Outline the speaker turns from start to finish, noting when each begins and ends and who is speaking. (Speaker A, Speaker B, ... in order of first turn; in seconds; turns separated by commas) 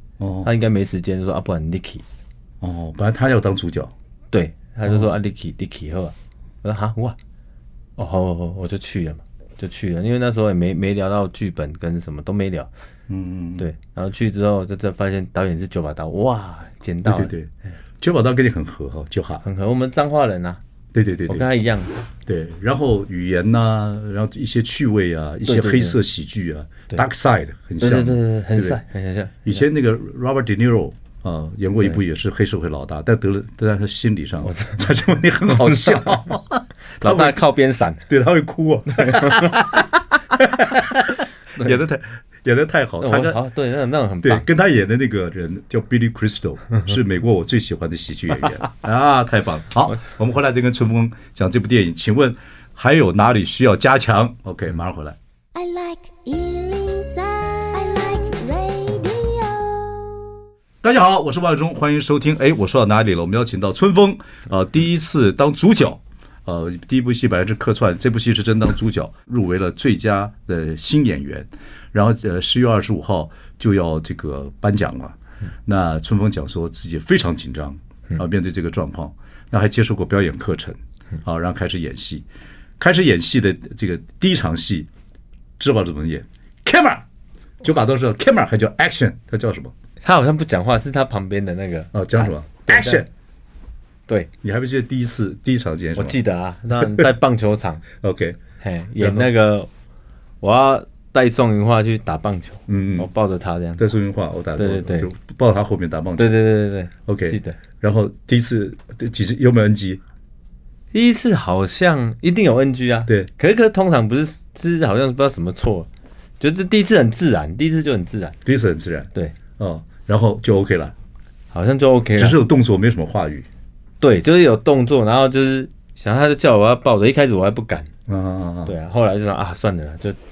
Speaker A: 0.2-0.5, Speaker B: 0.4-2.0, Speaker A: 2.6-3.9, Speaker B: 4.3-7.2, Speaker B: 8.0-12.7, Speaker A: 13.1-13.7, Speaker B: 13.6-17.3, Speaker A: 17.0-19.4, Speaker B: 19.4-20.6, Speaker A: 20.9-21.4, Speaker B: 21.3-21.9, Speaker A: 22.2-28.8, Speaker B: 25.4-26.0, Speaker B: 27.8-29.6, Speaker A: 29.4-37.4, Speaker B: 34.4-34.8, Speaker B: 35.6-36.0, Speaker B: 37.0-38.1, Speaker A: 38.1-43.4, Speaker B: 38.9-39.6, Speaker B: 43.0-44.4, Speaker A: 44.2-55.2, Speaker C: 55.5-60.3, Speaker A: 60.8-82.2, Speaker A: 82.8-84.9, Speaker A: 85.6-87.0, Speaker A: 87.6-89.7, Speaker B: 90.0-93.0, Speaker A: 91.9-93.1, Speaker A: 94.4-96.2, Speaker B: 96.0-97.8, Speaker A: 98.0-98.4, Speaker B: 98.6-99.7, Speaker A: 99.0-99.3, Speaker B: 100.4-103.9, Speaker A: 102.7-103.1, Speaker A: 103.8-106.3, Speaker B: 104.5-105.1, Speaker B: 106.2-107.6, Speaker A: 107.0-110.0, Speaker B: 110.9-115.9, Speaker B: 116.4-118.4, Speaker A: 118.4-120.9, Speaker B: 121.5-122.4, Speaker A: 122.2-123.5, Speaker B: 124.0-127.9, Speaker A: 128.1-128.7, Speaker B: 128.6-130.2